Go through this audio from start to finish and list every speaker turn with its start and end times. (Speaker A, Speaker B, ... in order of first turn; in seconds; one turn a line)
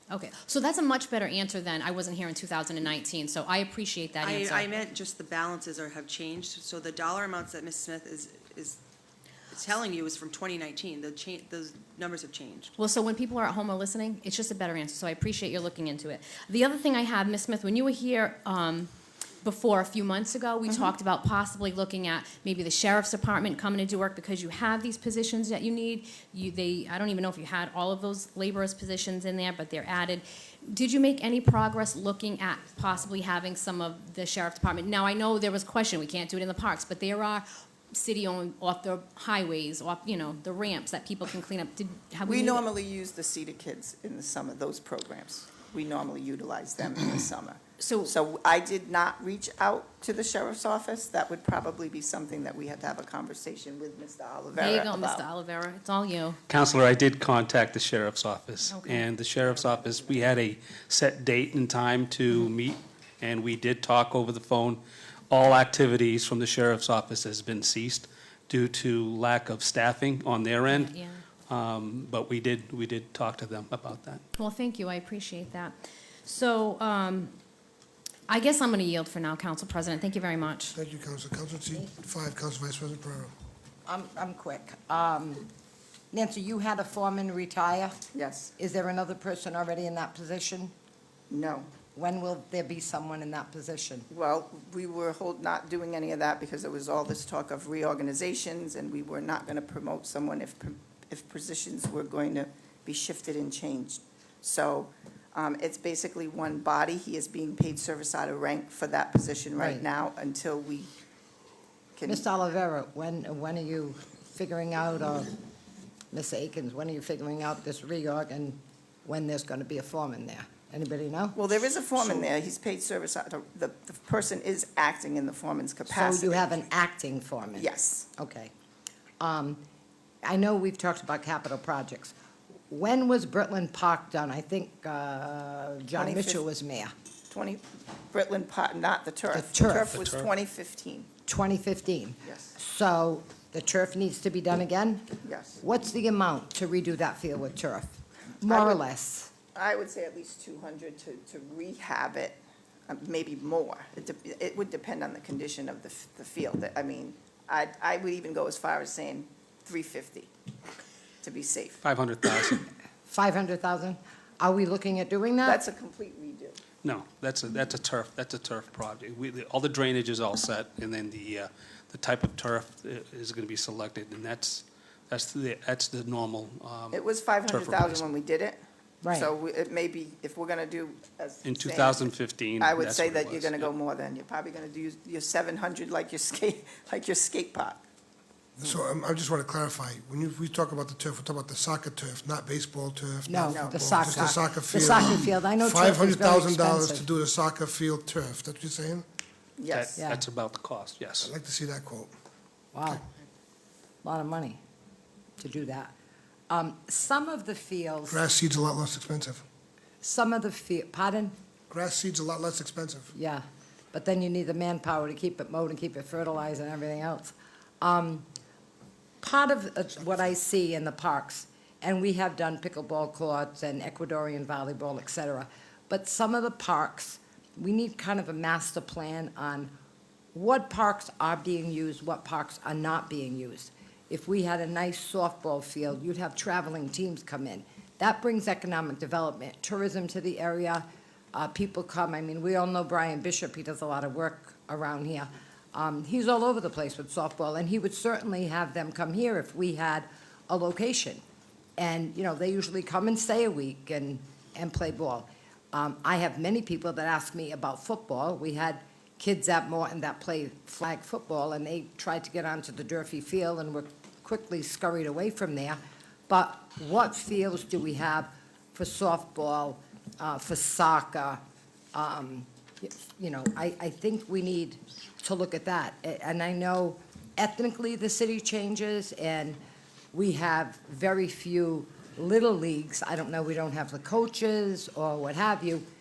Speaker A: 0.1-4.7
Speaker B: 4.2-8.8
Speaker B: 9.5-12.7
Speaker A: 12.8-18.9
Speaker A: 19.4-42.6
Speaker C: 42.2-55.2
Speaker A: 47.8-48.1
Speaker A: 54.5-56.4
Speaker D: 56.5-70.9
Speaker A: 58.7-59.0
Speaker A: 70.7-71.2
Speaker D: 71.5-74.2
Speaker A: 74.3-75.7
Speaker A: 76.2-77.3
Speaker A: 78.3-80.8
Speaker E: 80.7-83.3
Speaker F: 83.8-85.5
Speaker F: 86.1-88.0
Speaker C: 88.1-88.5
Speaker F: 88.6-90.7
Speaker C: 91.3-91.7
Speaker F: 91.9-94.1
Speaker C: 94.1-110.9
Speaker F: 109.5-109.8
Speaker C: 112.0-112.2
Speaker F: 112.1-115.4
Speaker F: 116.1-121.4
Speaker C: 121.3-126.6
Speaker F: 121.9-122.3
Speaker F: 125.9-128.5
Speaker C: 127.5-128.1
Speaker F: 129.2-129.6
Speaker F: 130.2-132.1
Speaker F: 132.7-136.9
Speaker C: 135.9-136.4
Speaker C: 137.3-141.1
Speaker F: 139.3-140.1
Speaker D: 139.9-140.3
Speaker F: 141.3-149.3
Speaker C: 142.2-142.6
Speaker C: 145.2-145.6
Speaker C: 148.4-148.8
Speaker C: 149.5-160.3
Speaker C: 161.2-161.8
Speaker D: 161.8-162.6
Speaker F: 163.1-165.6
Speaker C: 165.4-166.6
Speaker D: 166.8-178.1
Speaker C: 176.9-187.8
Speaker F: 179.0-179.3
Speaker D: 181.4-183.7
Speaker E: 188.6-199.0
Speaker F: 193.3-197.1
Speaker C: 193.4-193.9
Speaker C: 199.6-199.9
Speaker D: 199.7-201.3
Speaker F: 200.0-200.2
Speaker E: 201.2-202.1
Speaker F: 202.7-203.0
Speaker F: 204.0-204.6
Speaker F: 205.4-205.9
Speaker F: 206.5-208.2
Speaker E: 208.1-209.4
Speaker F: 210.0-211.3
Speaker E: 211.7-213.1
Speaker F: 213.1-218.2
Speaker F: 219.2-229.7
Speaker F: 230.3-251.2
Speaker F: 251.8-271.4
Speaker F: 271.9-279.6
Speaker F: 280.1-285.8